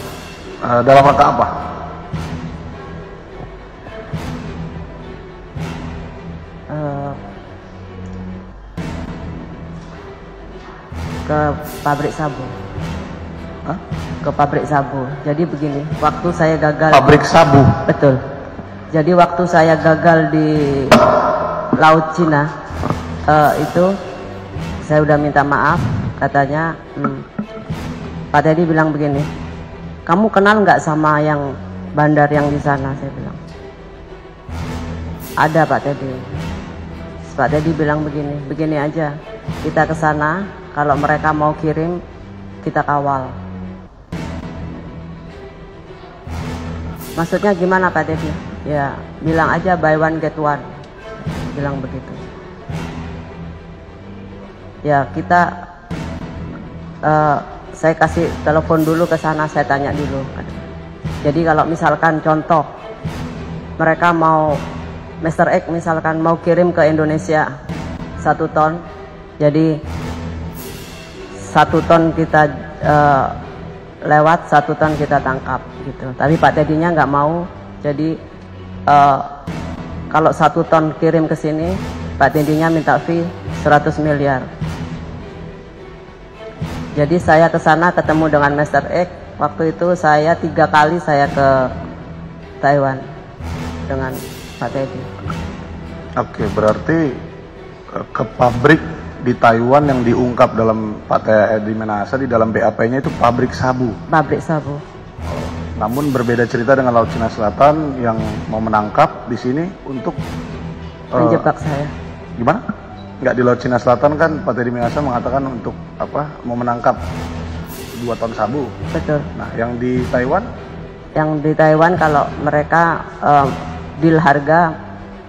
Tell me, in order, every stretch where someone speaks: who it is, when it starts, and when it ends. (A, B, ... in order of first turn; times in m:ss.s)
0:00.6-0:01.5 A
0:06.7-0:07.2 B
0:11.3-0:12.5 B
0:14.2-0:17.3 B
0:16.9-0:17.8 A
0:17.9-0:18.2 B
0:18.9-0:21.1 B
0:21.7-0:22.5 B
0:23.3-0:23.9 B
0:24.8-0:27.3 B
0:28.3-0:29.3 B
0:30.1-0:33.4 B
0:35.4-0:36.3 B
0:37.3-0:42.0 B
0:42.6-0:43.4 B
0:47.2-0:50.6 B
0:51.2-0:52.2 B
0:54.8-0:55.6 B
0:57.0-1:00.6 B
1:01.2-1:02.7 B
1:03.8-1:04.6 B
1:05.2-1:07.5 B
1:08.2-1:08.8 B
1:09.4-1:09.8 B
1:11.4-1:13.4 B
1:14.1-1:18.2 B
1:18.9-1:19.3 B
1:20.1-1:24.5 B
1:27.0-1:31.7 B
1:32.6-1:33.0 B
1:33.9-1:35.1 B
1:36.2-1:37.1 A
1:38.0-1:44.0 A
1:44.1-1:44.8 B
1:45.8-1:50.2 A
1:51.1-1:51.4 A
1:51.2-1:51.9 B
1:53.2-1:57.0 A
1:58.0-1:58.7 A
1:58.9-1:59.3 B
1:59.4-2:00.5 A
2:01.2-2:04.7 B